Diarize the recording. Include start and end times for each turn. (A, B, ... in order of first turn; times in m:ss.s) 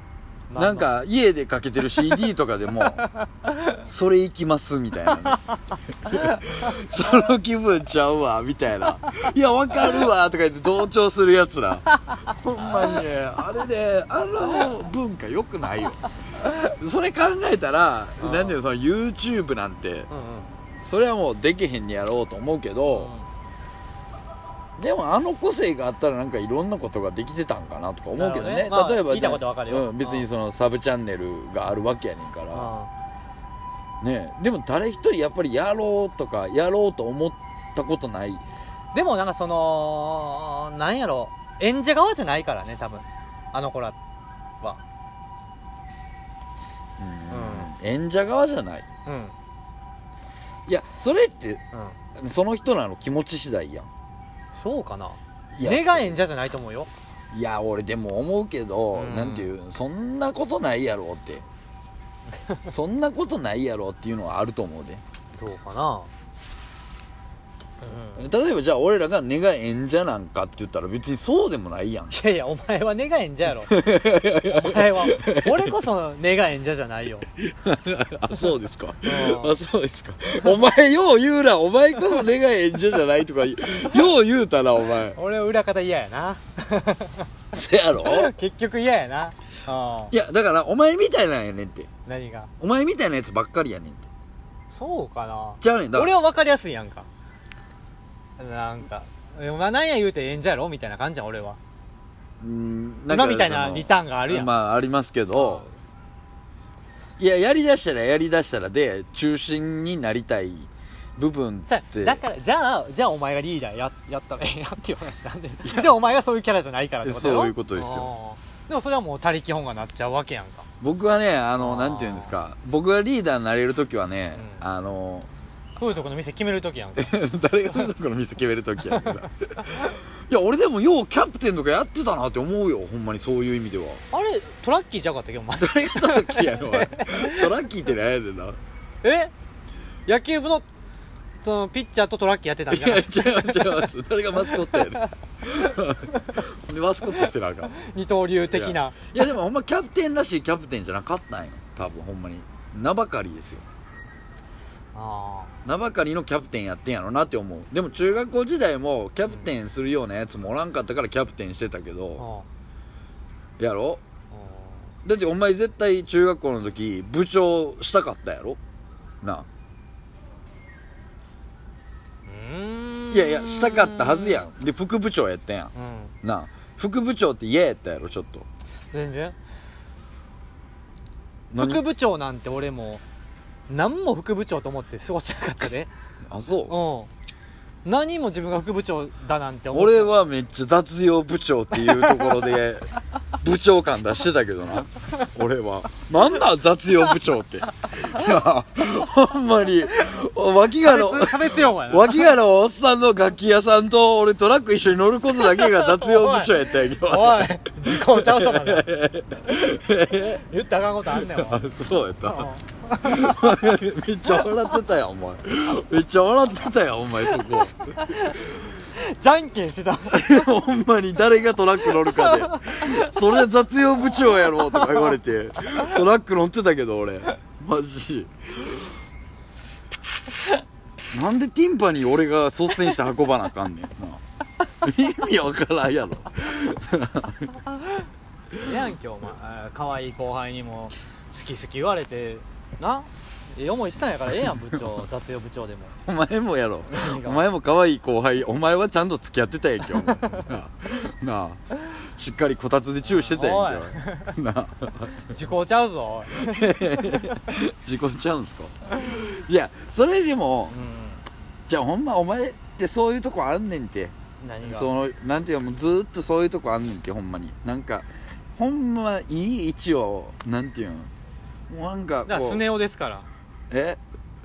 0:00.5-0:00.9 A
0:00.6-0:03.0 B
0:03.1-0:03.6 A
0:03.8-0:05.4 B
0:06.0-0:16.0 B
0:06.1-0:06.7 A
0:16.6-0:20.1 B
0:18.2-0:18.6 A
0:20.1-0:20.5 A
0:20.8-0:23.1 B
0:22.9-0:23.3 A
0:24.8-0:32.7 B
0:28.2-0:30.3 A
0:32.5-0:32.9 A
0:34.0-0:38.4 B
0:38.9-0:44.0 A
0:47.0-0:48.8 B
0:47.3-0:47.7 A
0:49.0-0:49.3 A
0:50.6-0:51.6 B
0:52.2-0:53.9 B
0:54.5-0:56.9 A
0:55.5-0:56.2 B
0:57.3-1:01.4 B
0:58.9-0:59.5 A
1:02.7-1:05.0 B
1:05.3-1:06.1 A
1:07.8-1:08.2 A
1:08.1-1:12.1 B
1:12.1-1:13.7 A
1:13.6-1:15.8 B
1:14.4-1:17.3 A
1:17.4-1:25.2 B
1:19.0-1:19.6 A
1:25.1-1:27.3 A
1:27.5-1:28.3 B
1:28.0-1:30.1 A
1:30.1-1:31.9 B
1:32.0-1:32.5 A
1:32.6-1:34.1 B
1:34.7-1:37.1 A
1:35.6-1:36.2 B
1:38.4-1:41.6 A
1:42.4-1:45.6 B
1:43.1-1:44.5 A
1:45.4-1:45.7 A
1:47.2-1:52.2 B
1:51.7-2:00.7 A
1:55.6-1:56.0 B
1:57.0-1:58.1 B
2:00.8-2:05.3 B
2:01.6-2:02.4 A
2:04.3-2:04.6 A
2:05.8-2:07.1 A
2:07.0-2:14.0 B
2:08.9-2:09.3 A
2:14.1-2:17.5 A
2:15.5-2:18.6 B
2:19.0-2:19.3 A
2:20.0-2:20.7 A
2:21.4-2:23.9 A
2:22.7-2:27.7 B
2:24.4-2:26.4 A
2:27.2-2:29.1 A
2:28.5-2:33.6 B
2:34.9-2:35.5 A
2:35.6-2:42.2 B
2:42.2-2:42.4 A
2:43.6-2:44.0 B
2:44.3-2:44.8 A
2:45.0-2:48.6 B
2:49.2-2:49.5 B
2:52.3-2:54.5 A
2:53.1-2:55.7 B
2:55.7-2:56.1 A
2:56.2-2:58.4 B
2:58.9-2:59.3 A
3:01.5-3:01.8 B
3:01.6-3:03.0 A
3:03.7-3:05.9 A
3:06.3-3:06.7 B
3:06.7-3:07.1 A
3:07.8-3:10.1 A
3:09.7-3:30.4 B
3:11.7-3:12.4 A
3:20.8-3:22.3 A
3:25.5-3:28.9 A
3:30.2-3:31.6 A
3:31.1-3:37.8 B
3:32.3-3:33.5 A
3:37.4-3:40.5 A
3:40.1-3:48.9 B
3:41.8-3:43.2 A
3:44.3-3:45.1 A
3:51.1-3:54.2 B
3:54.8-3:57.6 B
3:58.6-4:05.9 A
4:04.3-4:04.9 B
4:06.0-4:15.4 B
4:06.8-4:07.4 A
4:09.9-4:10.5 A
4:13.0-4:14.3 A
4:15.3-4:17.4 A
4:16.3-4:20.8 B
4:20.7-4:21.2 A
4:21.7-4:31.1 B
4:24.4-4:24.9 A
4:31.7-4:32.6 B
4:32.2-4:33.3 A
4:33.7-4:34.0 B